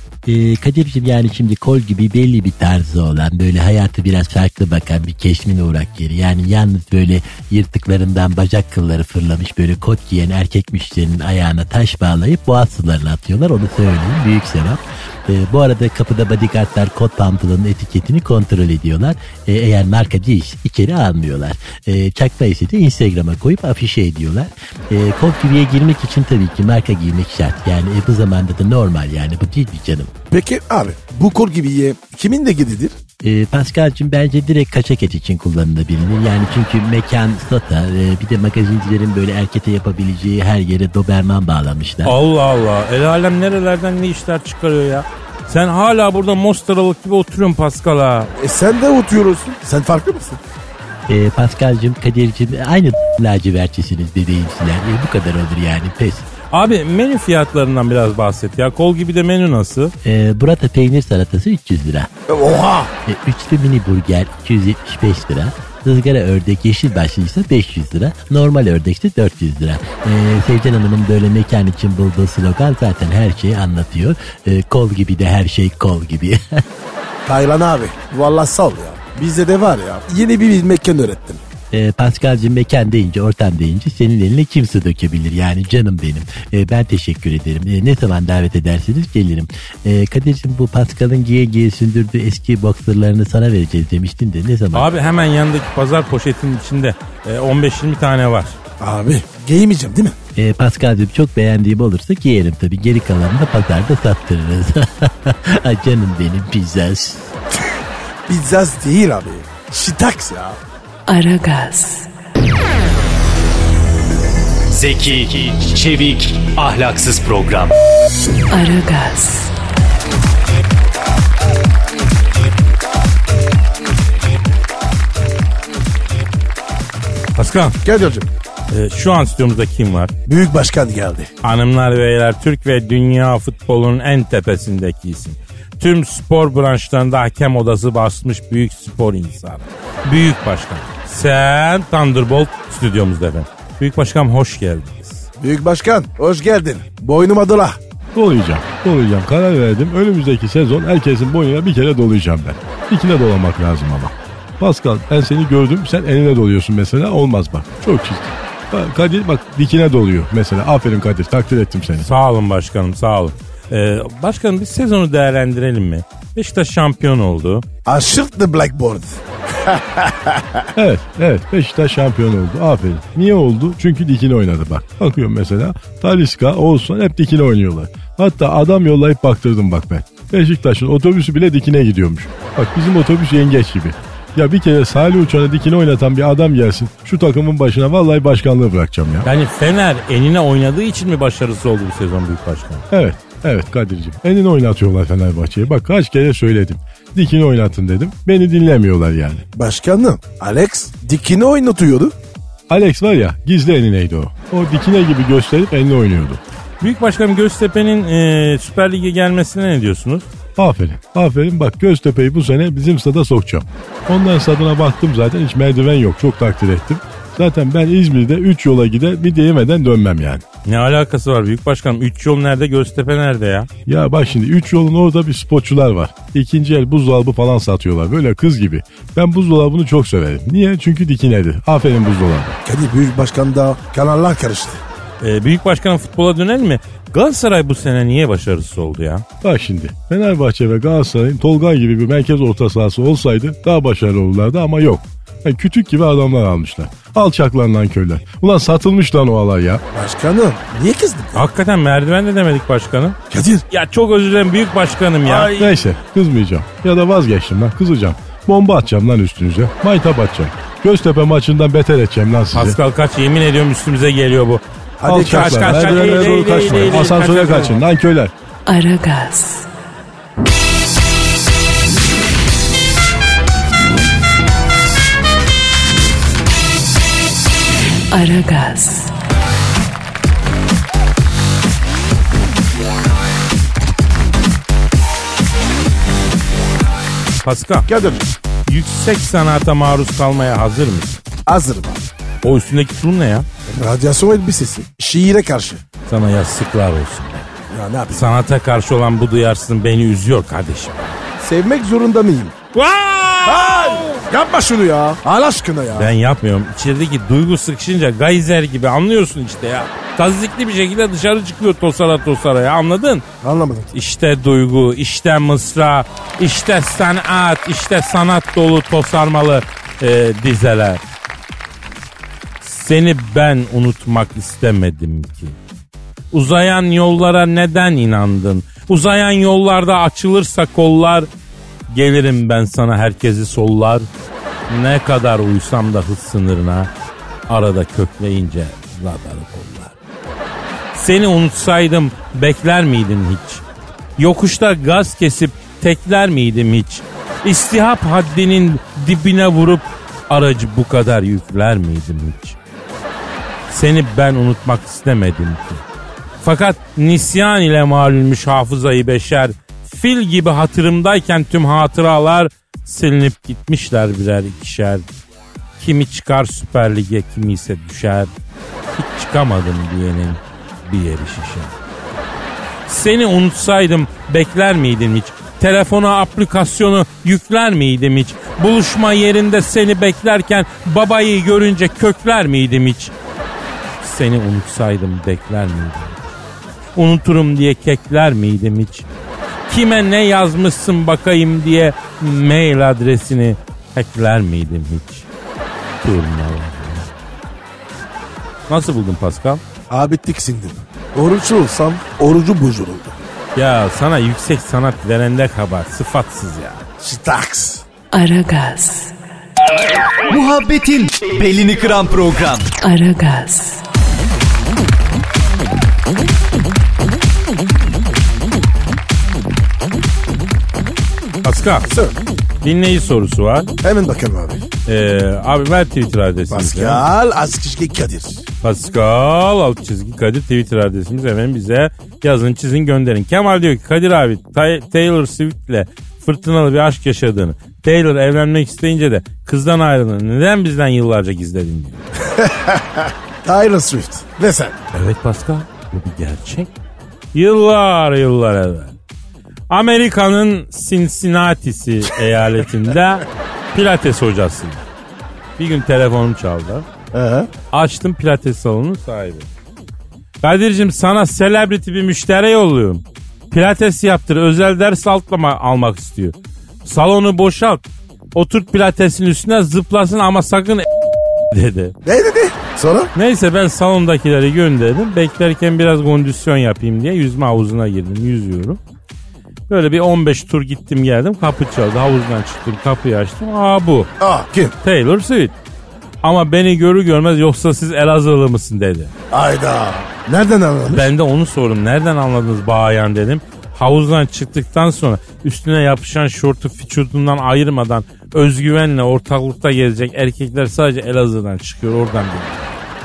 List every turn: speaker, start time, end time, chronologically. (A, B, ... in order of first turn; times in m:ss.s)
0:00.2-0:30.1 A
0:30.3-0:33.0 B
0:33.2-0:42.2 A
0:42.0-0:48.3 C
0:48.4-0:50.4 B
0:51.1-0:56.3 A
0:56.5-0:59.9 C
1:00.0-1:02.1 A
1:02.3-1:02.9 B
1:03.1-1:16.6 A
1:17.2-1:21.4 B
1:21.7-1:34.9 A
1:34.7-1:38.6 C
1:38.8-1:40.1 B
1:40.4-1:47.3 A
1:48.3-1:50.6 B
1:51.1-1:52.1 D
1:54.7-1:57.7 E
1:58.5-1:59.5 D
2:07.4-2:07.8 C
2:07.8-2:08.3 B
2:08.7-2:10.1 C
2:10.3-2:11.3 B
2:11.4-2:25.3 C
2:25.4-2:27.8 B
2:28.1-2:42.1 F
2:42.0-2:47.6 C
2:47.9-2:50.7 B
2:50.8-3:09.3 F
3:09.2-3:12.9 C
3:12.9-3:19.4 F
3:19.6-3:22.1 B
3:22.7-3:26.4 F
3:26.8-3:30.3 C
3:30.6-3:40.4 F
3:40.6-3:43.7 C
3:43.9-3:52.6 F
3:52.6-3:54.8 B
3:55.2-3:59.2 C
3:59.4-4:09.8 F
4:09.9-4:11.4 B
4:11.4-4:13.2 C
4:13.3-4:13.6 B
4:13.7-4:15.7 C
4:15.2-4:15.5 B
4:15.6-4:22.8 F
4:22.5-4:27.8 C
4:25.0-4:26.4 B
4:25.0-4:28.3 F
4:28.6-4:29.7 D
4:38.1-4:39.1 D
4:47.4-4:47.9 C
4:47.9-4:48.3 B
4:48.7-4:51.2 C
4:51.5-4:52.1 B
4:52.4-4:53.5 C
4:53.7-4:55.8 B
4:56.1-4:57.5 C
4:57.7-4:58.3 B
4:58.1-5:01.2 C
5:01.4-5:02.6 B
5:02.8-5:04.2 C
5:03.4-5:06.1 B
5:06.0-5:13.2 C
5:13.4-5:13.9 B
5:13.9-5:21.0 C
5:22.6-5:25.6 C
5:26.3-5:31.3 C
5:31.9-5:34.1 C
5:34.7-5:36.9 C
5:37.5-5:40.0 C
5:40.9-5:43.6 C
5:44.2-5:52.6 C
5:53.7-5:55.8 C
5:56.4-6:05.0 C
6:05.8-6:08.3 C
6:09.0-6:11.7 C
6:12.9-6:23.1 C
6:24.0-6:26.3 C
6:27.0-6:29.1 C
6:29.7-6:35.3 C
6:36.0-6:37.1 C
6:38.7-6:39.6 C
6:39.9-6:43.2 B
6:43.6-6:46.9 C
6:47.0-6:47.8 B
6:48.1-6:49.1 D
6:50.3-6:52.7 E
6:52.8-6:53.8 D
7:01.4-7:01.9 C
7:01.9-7:02.2 B
7:02.6-7:03.7 C
7:03.8-7:04.6 B
7:04.9-7:07.0 C
7:06.5-7:08.4 B
7:08.6-7:22.0 C
7:22.3-7:24.8 B
7:24.9-7:26.7 C
7:27.3-7:29.0 C
7:29.7-7:34.8 C
7:35.6-7:36.9 C
7:37.1-7:37.5 B
7:37.7-7:39.5 C
7:40.4-7:47.8 C
7:48.3-7:50.9 C
7:51.5-7:51.9 C
7:52.0-7:53.1 B
7:53.1-7:58.8 C
7:59.7-8:04.1 C
8:04.2-8:04.7 B
8:04.8-8:05.5 C
8:06.2-8:09.1 C
8:09.3-8:11.1 B
8:10.9-8:22.8 C